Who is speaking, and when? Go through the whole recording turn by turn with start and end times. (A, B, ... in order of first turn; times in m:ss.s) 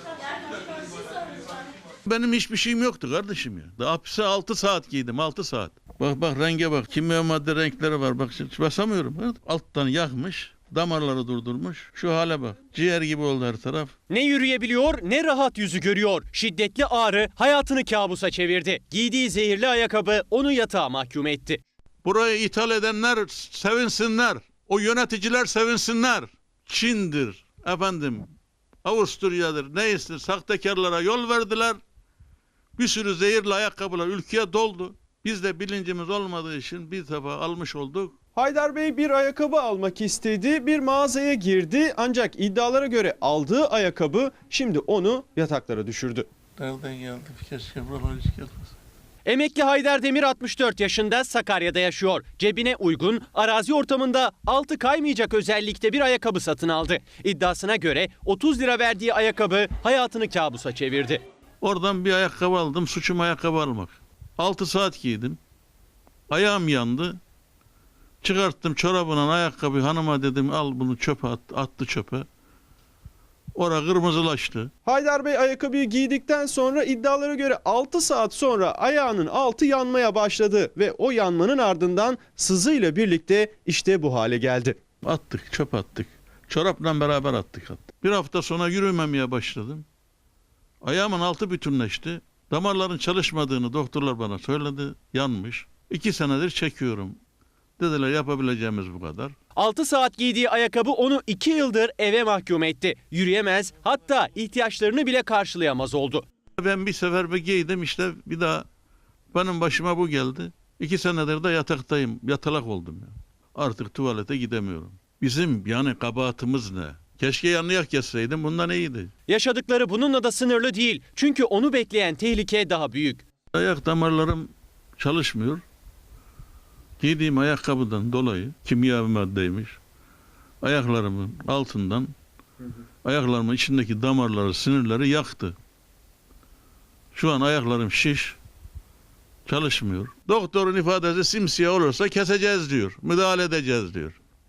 0:02.0-0:13.9 A
0:14.1-0:21.6 B
0:22.0-0:28.3 A
0:28.8-0:31.8 A
0:32.8-0:38.1 A
0:38.4-0:46.3 C
0:46.6-0:48.7 A
0:49.2-1:01.2 B
1:01.6-1:05.4 A
1:06.3-1:07.2 A
1:08.2-1:12.3 A
1:13.5-1:14.7 A
1:14.8-1:24.8 C
1:25.0-1:29.8 A
1:30.8-1:37.2 A
1:37.8-1:39.3 A
1:39.6-1:46.2 B
1:46.6-1:48.6 A
1:49.3-1:59.1 A
1:59.3-2:03.2 B
2:03.5-2:05.6 A
2:07.0-2:09.8 A
2:10.6-2:12.1 A
2:13.0-2:15.6 A
2:17.1-2:18.4 A
2:19.4-2:24.2 A